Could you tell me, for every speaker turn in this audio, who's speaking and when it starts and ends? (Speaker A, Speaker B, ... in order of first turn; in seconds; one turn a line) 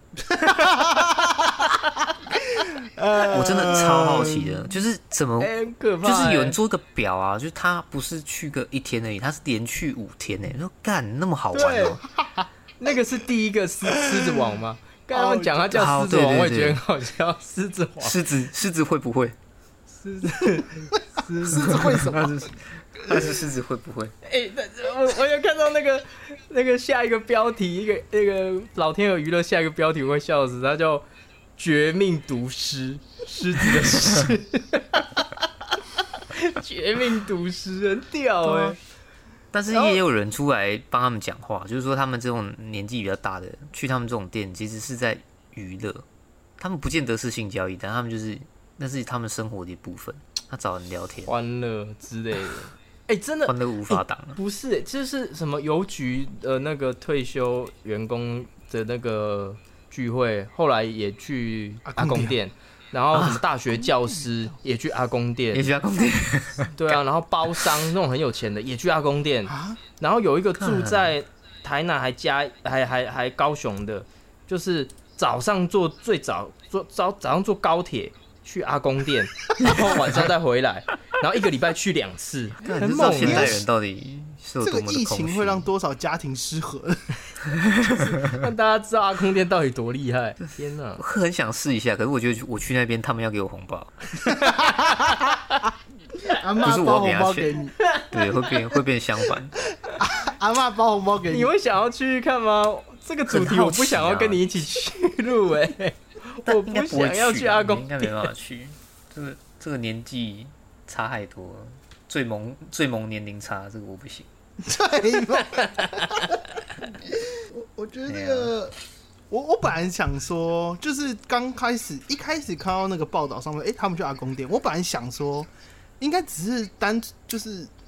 Speaker A: 0.3-4.7
Speaker B: 3.2-12.0
Speaker C: 5.4-6.6
Speaker A: 11.5-12.5
Speaker C: 12.8-18.2
Speaker A: 13.9-14.4
Speaker A: 15.1-15.6
Speaker B: 15.7-16.8
Speaker B: 18.0-19.4
Speaker A: 20.0-22.5
Speaker C: 20.2-20.9
Speaker B: 21.5-24.1
Speaker A: 23.1-23.4
Speaker C: 24.2-31.1
Speaker C: 31.6-38.8
Speaker A: 38.5-38.7
Speaker B: 39.5-46.0
Speaker C: 39.7-40.0
Speaker B: 46.6-51.3
Speaker C: 51.2-65.7
Speaker B: 53.5-54.4
Speaker A: 61.9-62.4
Speaker B: 63.1-63.4
Speaker B: 65.5-67.7
Speaker C: 66.8-83.6
Speaker A: 69.5-69.8
Speaker B: 70.6-71.1
Speaker B: 82.6-85.7
Speaker A: 82.8-83.6
Speaker A: 84.6-87.2
Speaker B: 87.5-88.4
Speaker C: 87.8-91.0
Speaker B: 91.0-94.0
Speaker C: 94.2-95.7
Speaker A: 94.2-95.5
Speaker A: 96.2-97.8
Speaker B: 96.6-99.6
Speaker C: 97.8-98.6
Speaker A: 99.8-101.5
Speaker C: 101.3-108.3
Speaker B: 103.3-104.5
Speaker B: 106.5-114.3
Speaker A: 114.6-118.8
Speaker C: 115.4-116.2
Speaker B: 118.1-118.5
Speaker A: 119.3-127.7